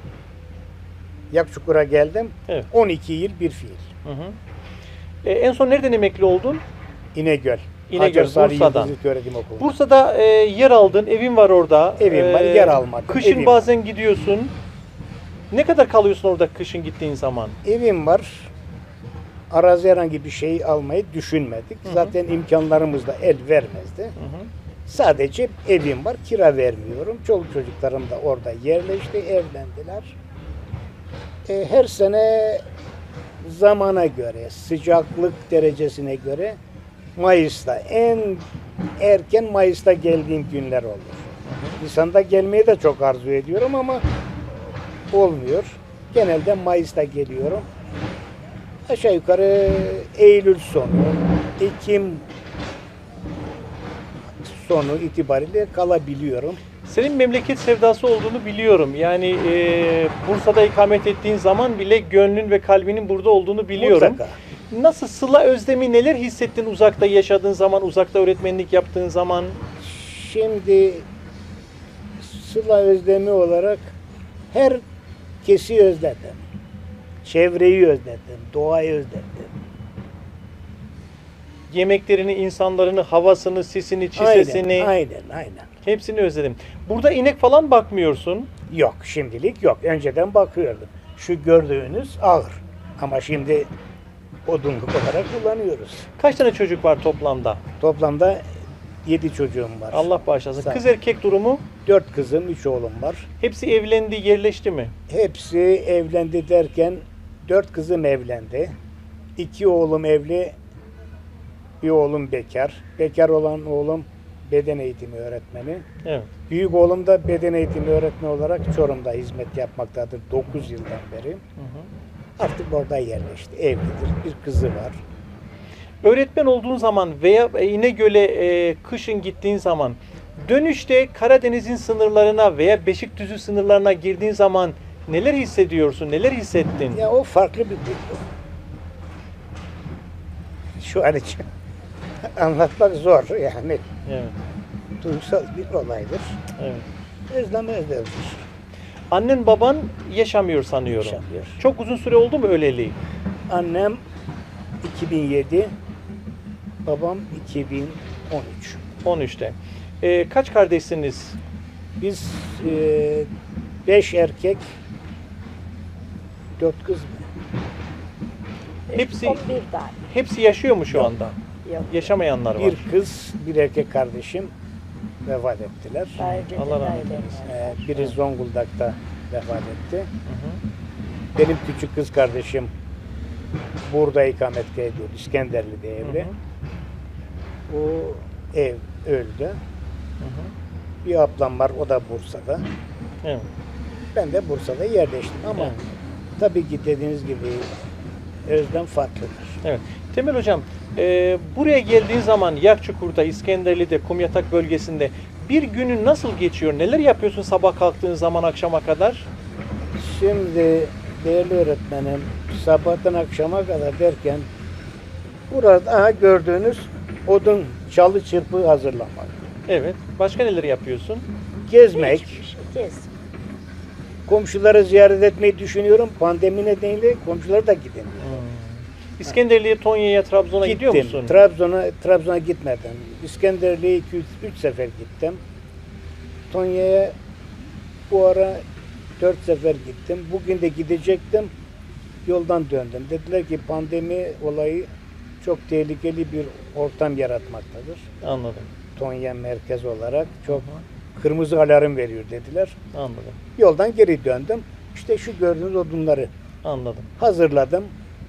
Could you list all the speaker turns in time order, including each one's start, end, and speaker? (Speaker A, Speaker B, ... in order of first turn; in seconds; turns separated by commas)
Speaker A: 1.3-3.9, Speaker B: 4.0-4.4, Speaker B: 5.2-6.6, Speaker A: 7.1-9.7, Speaker B: 7.9-8.9, Speaker B: 9.6-14.5, Speaker A: 12.0-13.7, Speaker B: 15.5-17.6, Speaker A: 17.6-18.5, Speaker A: 19.5-24.1, Speaker B: 21.9-22.1, Speaker B: 24.2-24.5, Speaker A: 24.9-30.1, Speaker A: 31.4-32.6, Speaker A: 33.4-36.6, Speaker A: 37.1-38.5, Speaker A: 39.0-44.0, Speaker B: 41.5-41.7, Speaker A: 45.1-47.6, Speaker A: 48.9-52.2, Speaker A: 54.3-56.6, Speaker B: 56.8-64.2, Speaker A: 63.8-64.3, Speaker B: 64.7-69.6, Speaker A: 69.8-71.1, Speaker A: 72.2-73.9, Speaker A: 74.5-74.8, Speaker A: 75.4-76.4, Speaker A: 77.2-79.5, Speaker B: 81.7-84.9, Speaker A: 84.2-85.7, Speaker B: 85.8-88.5, Speaker A: 88.7-93.7, Speaker A: 94.5-96.1, Speaker B: 96.2-97.6, Speaker A: 97.8-98.5, Speaker A: 99.0-100.8, Speaker B: 99.9-101.6, Speaker A: 101.8-103.3, Speaker B: 103.4-104.9, Speaker A: 105.1-108.7, Speaker A: 109.3-110.6, Speaker A: 111.8-115.9, Speaker B: 116.0-116.3, Speaker A: 116.5-121.4, Speaker B: 121.6-121.9, Speaker A: 122.4-125.0, Speaker B: 126.0-137.0, Speaker A: 136.9-138.2, Speaker A: 140.8-141.4, Speaker A: 142.2-143.8, Speaker B: 144.1-144.3, Speaker A: 145.0-146.4, Speaker B: 146.6-146.8, Speaker A: 147.3-148.4, Speaker B: 149.1-152.9, Speaker A: 151.0-151.6, Speaker A: 153.5-154.0, Speaker A: 154.8-155.7, Speaker A: 156.8-158.8, Speaker B: 159.0-161.4, Speaker A: 162.0-163.3, Speaker A: 163.8-164.7, Speaker A: 166.6-167.3, Speaker C: 168.9-170.1, Speaker B: 168.9-169.4, Speaker B: 170.1-171.4, Speaker C: 171.6-172.1, Speaker B: 171.9-172.8, Speaker A: 172.6-174.5, Speaker A: 175.2-176.2, Speaker B: 176.2-177.3, Speaker C: 176.2-177.8, Speaker A: 177.4-180.1, Speaker B: 180.2-180.6, Speaker A: 181.3-182.7, Speaker A: 183.8-186.3, Speaker B: 186.0-186.3, Speaker A: 187.7-189.6, Speaker B: 190.2-190.5, Speaker A: 191.0-192.7, Speaker A: 194.1-195.8, Speaker A: 196.4-197.7, Speaker A: 198.4-199.6, Speaker B: 199.6-209.3, Speaker A: 209.9-214.5, Speaker A: 215.5-219.4, Speaker B: 219.7-221.3, Speaker A: 221.7-222.4, Speaker C: 221.9-223.1, Speaker A: 224.2-228.4, Speaker B: 228.2-231.4, Speaker A: 230.6-235.4, Speaker A: 236.5-237.2, Speaker A: 238.1-238.6, Speaker A: 239.2-241.5, Speaker A: 242.2-244.9, Speaker A: 245.4-248.1, Speaker B: 248.2-248.7, Speaker A: 248.9-252.8, Speaker B: 250.5-250.8, Speaker B: 252.9-253.4, Speaker A: 253.6-256.3, Speaker B: 256.6-257.1, Speaker A: 257.2-257.9